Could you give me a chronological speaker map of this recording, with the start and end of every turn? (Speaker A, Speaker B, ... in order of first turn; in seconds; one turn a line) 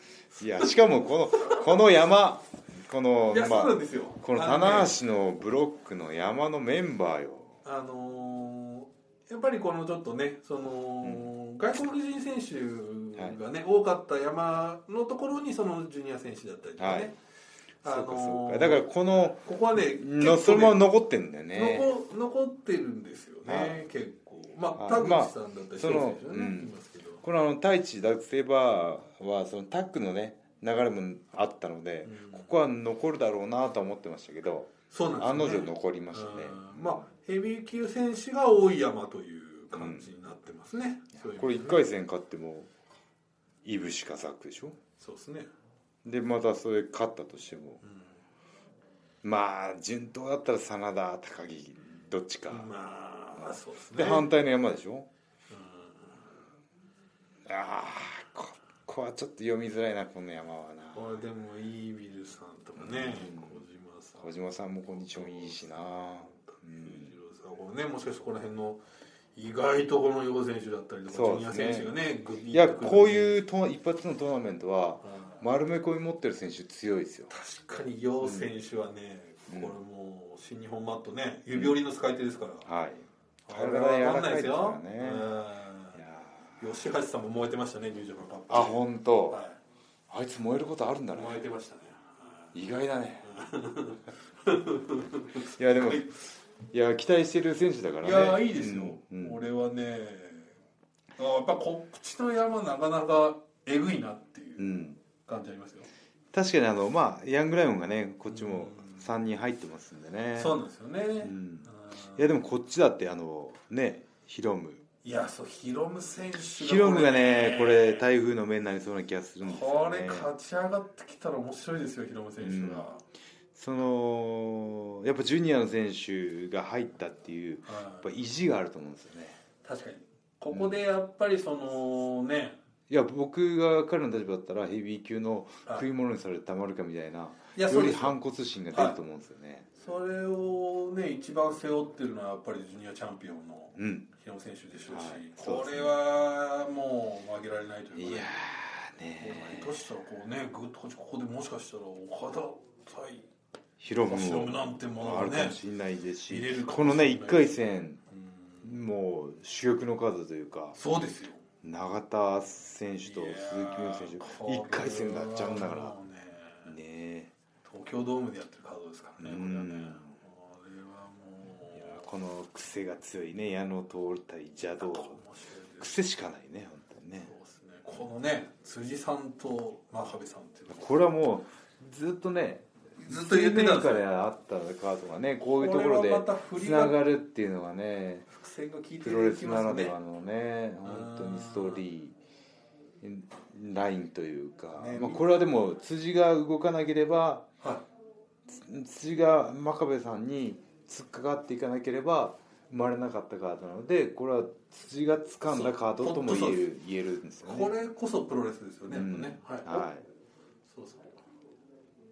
Speaker A: 0.4-7.6
Speaker B: 3.3-4.9
Speaker B: 7.6-17.1
Speaker A: 11.0-11.3
Speaker A: 16.8-17.1
Speaker B: 17.8-20.8
Speaker A: 17.8-21.9
Speaker B: 21.5-27.2
Speaker A: 23.4-23.8
Speaker A: 24.8-37.0
Speaker B: 32.0-32.5
Speaker B: 34.9-41.9
Speaker A: 39.7-40.1
Speaker A: 41.3-42.7
Speaker A: 43.6-44.8
Speaker B: 45.0-45.5
Speaker A: 46.0-47.8
Speaker B: 47.8-48.1
Speaker A: 49.2-52.7
Speaker B: 52.5-54.3
Speaker A: 53.4-55.1
Speaker B: 55.5-56.3
Speaker A: 57.5-61.2
Speaker B: 60.9-64.2
Speaker A: 62.8-63.6
Speaker A: 64.2-67.1
Speaker B: 65.1-65.7
Speaker B: 66.3-68.8
Speaker B: 69.3-73.4
Speaker A: 71.1-71.9
Speaker A: 72.5-77.3
Speaker B: 75.0-75.4
Speaker B: 77.3-82.7
Speaker A: 78.2-78.5
Speaker A: 79.5-79.7
Speaker A: 82.6-85.3
Speaker B: 83.5-86.0
Speaker A: 85.9-86.6
Speaker B: 86.6-89.6
Speaker A: 88.5-89.4
Speaker A: 90.1-91.4
Speaker B: 91.1-92.5
Speaker A: 92.5-93.3
Speaker B: 93.2-96.1
Speaker A: 95.5-96.1
Speaker A: 96.7-99.4
Speaker B: 98.0-100.5
Speaker B: 101.2-105.9
Speaker A: 104.6-105.0
Speaker A: 106.3-110.5
Speaker B: 108.3-109.0
Speaker B: 110.3-112.3
Speaker A: 111.2-114.8
Speaker B: 115.0-118.0
Speaker A: 116.5-120.3
Speaker B: 119.4-123.0
Speaker A: 122.4-122.9
Speaker A: 123.5-129.4
Speaker B: 127.7-128.1
Speaker B: 129.6-132.6
Speaker A: 130.5-130.8
Speaker A: 132.9-139.7
Speaker B: 137.5-138.2
Speaker B: 138.7-139.0
Speaker B: 139.8-148.3
Speaker A: 143.8-144.1
Speaker A: 144.9-145.9
Speaker A: 147.9-149.8
Speaker B: 149.2-153.2
Speaker A: 153.8-158.0
Speaker B: 154.1-155.6
Speaker B: 156.3-158.7
Speaker A: 158.6-160.8
Speaker B: 160.8-161.4
Speaker A: 161.6-165.9
Speaker B: 163.0-166.7
Speaker A: 166.6-167.3
Speaker B: 167.7-172.0
Speaker A: 169.2-170.1
Speaker A: 171.7-175.2
Speaker B: 174.8-176.0
Speaker A: 175.8-177.3
Speaker B: 177.2-180.9
Speaker A: 180.7-188.3
Speaker B: 183.0-184.0
Speaker B: 185.5-187.0
Speaker B: 188.3-189.9
Speaker A: 189.0-192.2
Speaker B: 190.8-191.8
Speaker A: 193.0-197.5
Speaker B: 194.8-195.3
Speaker A: 198.5-207.7
Speaker B: 205.5-206.6
Speaker B: 207.4-209.8
Speaker A: 208.9-210.0
Speaker B: 210.7-211.2